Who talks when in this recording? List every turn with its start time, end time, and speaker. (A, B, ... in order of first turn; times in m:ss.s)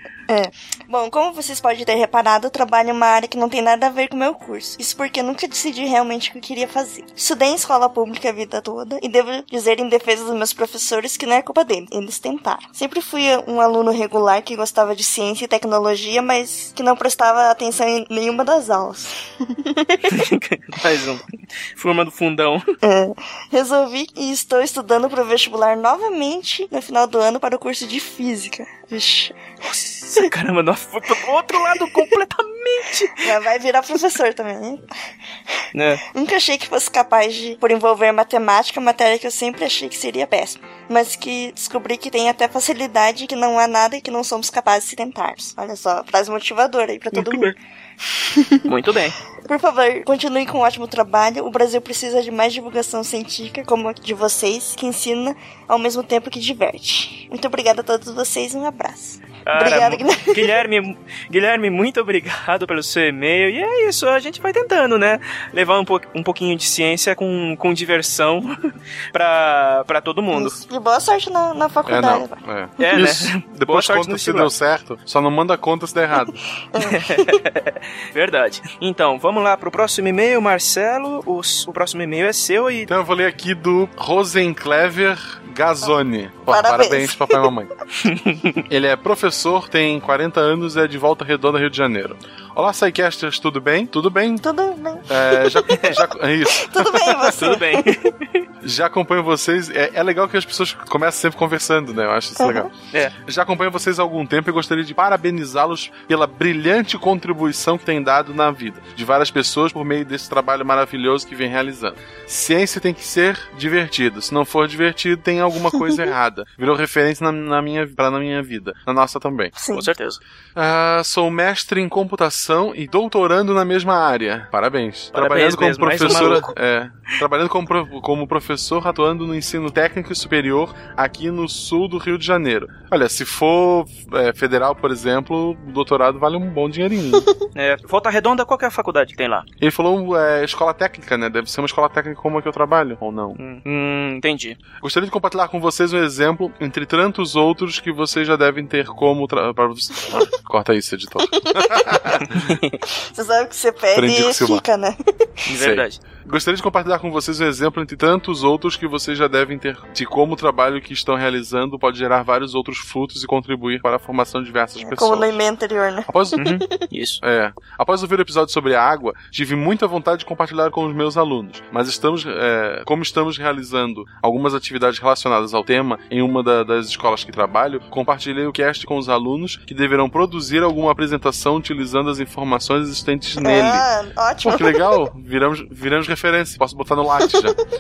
0:00.3-0:20.0 A
0:20.1-0:22.6 B
0:22.8-0:29.4 A
0:29.6-0:33.2 B
0:33.2-0:34.8 A
0:35.7-0:36.0 B
0:36.1-0:47.6 A
0:47.1-0:47.5 B
0:48.6-0:49.2 B
0:49.4-1:00.6 A
0:59.4-1:10.6 B
1:10.3-1:12.4 A
1:11.9-1:16.3 C
1:12.8-1:14.5 B
1:16.7-1:17.3 A
1:16.9-1:22.9 B
1:22.9-1:27.7 C
1:25.8-1:27.5 A
1:28.0-1:28.4 B
1:28.7-1:34.4 C
1:34.4-1:36.0 A
1:35.1-1:37.3 C
1:36.5-1:37.9 A
1:37.3-1:38.4 B
1:38.6-1:42.7 C
1:42.4-1:42.7 A
1:43.2-1:59.5 C
1:55.7-1:56.0 A
1:59.6-1:59.9 A
1:59.7-2:00.2 B
2:00.6-2:17.2 C
2:05.1-2:06.5 B
2:06.0-2:06.5 A
2:17.5-2:19.4 B
2:19.6-2:23.4 C
2:23.4-2:24.6 B
2:24.8-2:32.5 C
2:31.2-2:32.2 A
2:32.2-2:32.8 B
2:33.1-2:35.3 A
2:33.9-2:34.6 C
2:35.5-2:36.0 B
2:35.6-2:45.4 C
2:44.8-2:46.8 A
2:46.1-2:46.4 C
2:46.4-2:47.2 B
2:47.2-3:03.8 C
3:03.4-3:05.1 A
3:04.4-3:07.5 C
3:07.1-3:07.6 A